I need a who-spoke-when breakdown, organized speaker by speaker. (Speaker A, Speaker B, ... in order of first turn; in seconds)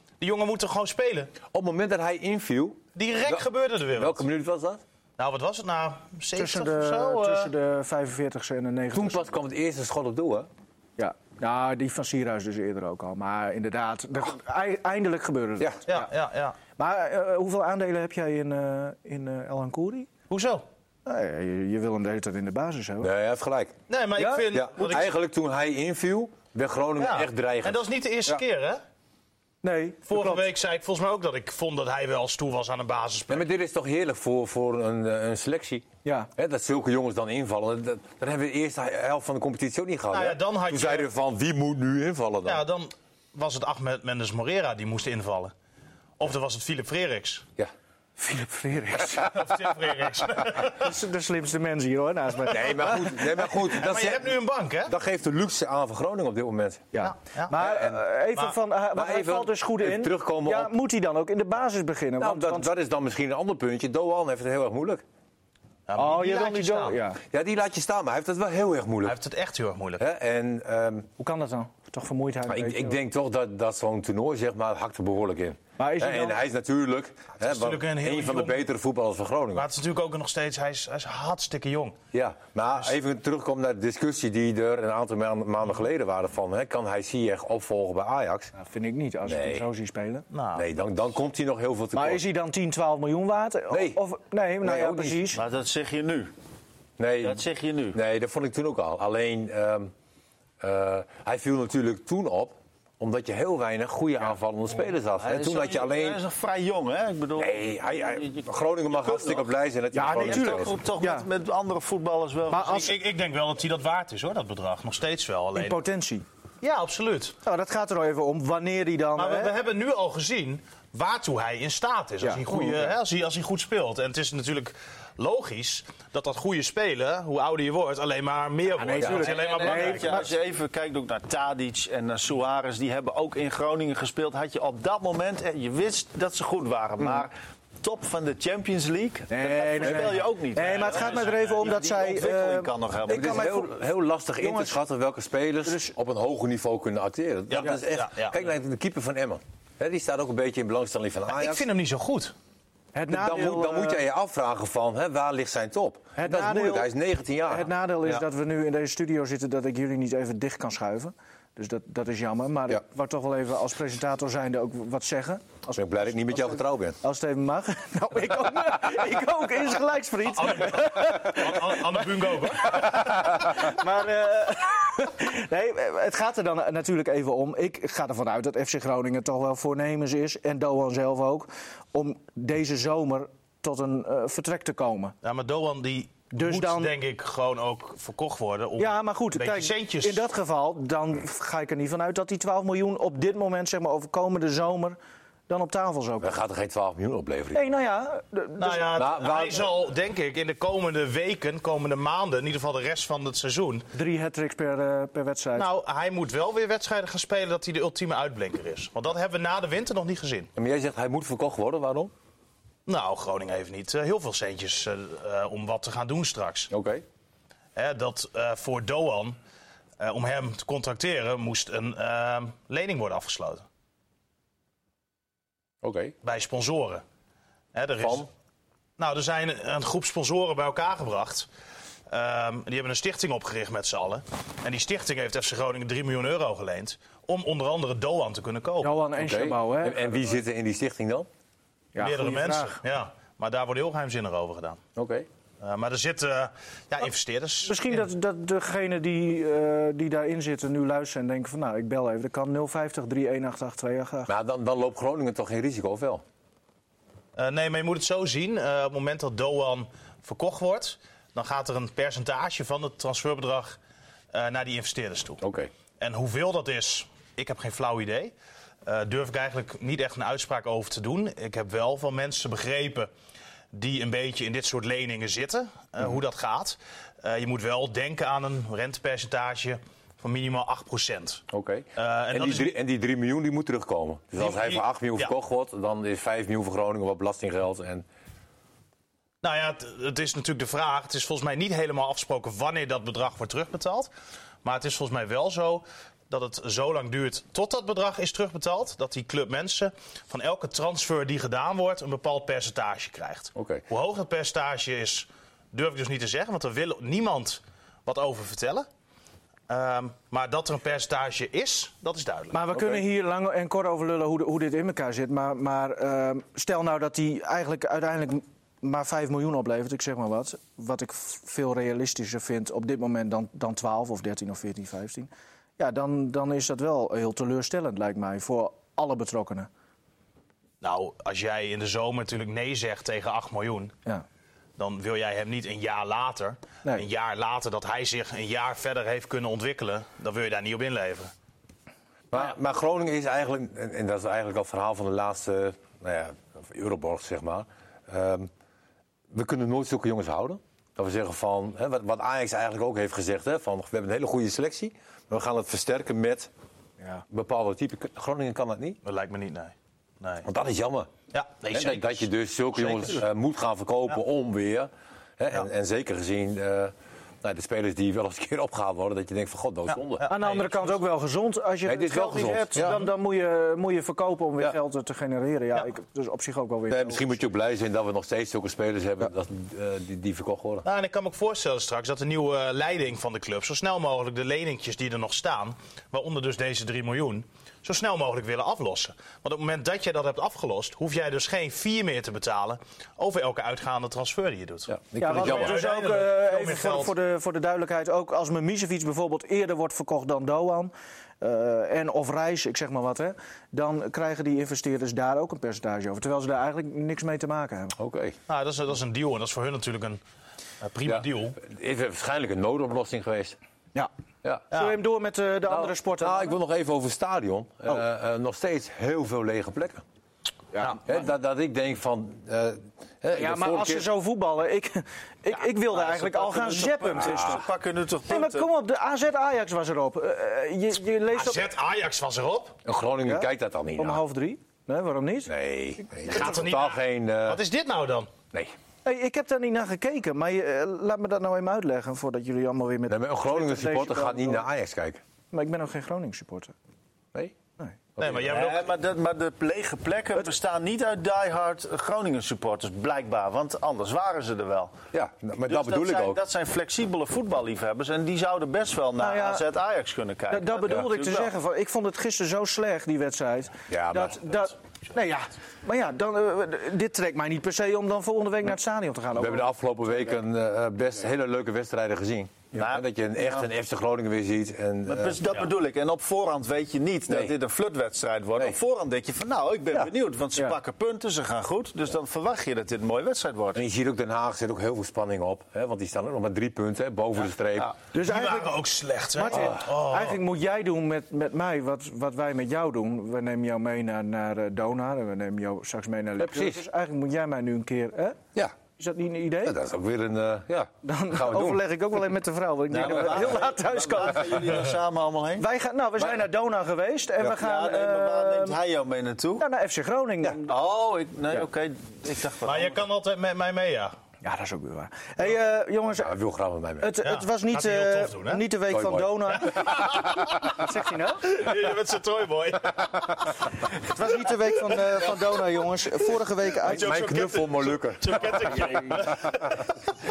Speaker A: 0.2-1.3, 3.0-4.2, 5.2-7.5, 15.9-16.6, 20.3-20.6, 23.9-25.1, 27.0-28.8, 30.1-33.4, 40.1-41.1, 42.4-45.5, 46.2-47.5, 49.1-50.9, 53.7-54.9, 57.0-57.5, 65.9-67.0, 69.0-70.0, 77.4-78.6, 79.5-82.0, 90.3-90.6, 112.7-115.8, 116.6-117.3, 119.2-130.3, 140.6-141.7, 147.5-148.4, 151.3-152.3, 170.3-173.5, 185.2-190.2, 198.6-203.9, 205.6-210.5, 212.8-216.7, 217.8-219.4, 220.0-223.6, 226.2-227.0, 227.7-228.3, 229.0-231.5, 232.1-238.9, 242.0-244.8, 245.6-248.0, 257.4-263.8, 264.3-265.4, 266.0-268.3, 268.8-273.1, 273.7-281.4, 282.0-282.7, 284.4-285.3, 289.4-294.1, 294.6-308.9, 309.7-312.6, 330.8-333.9, 334.8-341.3, 359.0-360.5, 361.3-362.2, 362.8-363.2, 370.1-371.0, 380.8-397.1, 408.5-410.2, 410.8-411.6, 414.7-415.0, 431.3-432.8, 436.3-438.3, 448.2-448.9, 488.2-490.4, 512.6-514.1, 517.2-518.6, 519.6-520.8, 521.4-523.6, 526.8-529.9
Speaker B: 1.5-3.4, 4.0-4.8, 8.9-10.5, 23.0-23.8, 24.5-28.4, 33.3-42.6, 52.4-54.3, 54.9-56.9, 57.6-58.0, 58.9-60.7, 62.2-65.0, 67.3-69.2, 70.0-71.1, 72.5-79.7, 82.1-88.5, 89.2-89.7, 90.5-92.2, 93.7-94.0, 94.6-95.3, 97.0-99.9, 100.6-106.2, 107.4-110.8, 143.1-151.6, 153.1-157.7, 165.7-167.0, 196.2-197.7, 198.9-199.7, 210.6-212.1, 216.7-217.0, 225.8-226.1, 228.0-228.3, 239.2-241.3, 244.9-245.3, 254.3-256.2, 265.4-265.7, 281.5-288.0, 303.5-303.8, 312.7-313.0, 342.3-348.5, 349.3-356.5, 357.3-359.0, 360.4-361.1, 361.7-370.2, 371.9-373.0, 376.9-380.9, 394.9-395.8, 408.0-408.4, 411.1-413.6, 415.7-420.0, 421.0-424.1, 427.2-427.6, 432.8-434.2, 435.5-437.6, 443.1-445.2, 448.2-448.5, 455.1-456.4, 463.9-464.5, 469.4-475.4, 477.3-477.5, 483.7-487.9, 496.4-496.8, 499.6-501.8, 516.1-517.1, 518.9-519.7, 526.8-529.7
Speaker C: 6.3-9.3, 11.0-16.1, 16.8-20.1, 21.1-23.1, 24.1-24.9, 29.6-30.4, 48.2-49.4, 50.7-53.4, 56.9-62.7, 66.0-67.2, 71.2-72.9, 75.8-76.4, 88.5-90.2, 91.9-95.4, 109.9-111.3, 112.5-112.9, 115.5-116.2, 117.4-119.5, 122.2-122.8, 128.8-130.3, 139.3-143.7, 144.4-144.8, 145.6-145.9, 152.9-154.0, 156.2-156.9, 157.5-185.2, 186.3-186.9, 188.8-195.0, 195.5-196.3, 197.5-198.9, 203.9-205.7, 238.8-240.1, 241.9-242.8, 247.7-254.3, 312.5-329.7, 370.2-377.3, 395.2-407.9, 414.7-416.6, 420.7-421.0, 423.3-427.6, 428.3-431.7, 433.2-435.5, 439.0-444.6, 445.5-446.7, 459.2-459.6, 460.5-469.7, 488.1-488.8, 489.3-498.4, 499.0-499.8, 501.0-504.8, 505.6-508.8, 509.6-510.7, 514.4-516.3, 517.0-521.5, 524.0-527.3
Speaker D: 95.3-96.3, 97.2-98.0, 105.2-109.5, 110.1-112.9, 129.0-143.5, 425.9-428.7, 448.5-455.0, 455.6-461.5, 472.7-473.7, 475.1-483.8, 502.9-505.6, 507.4-509.6, 510.6-513.0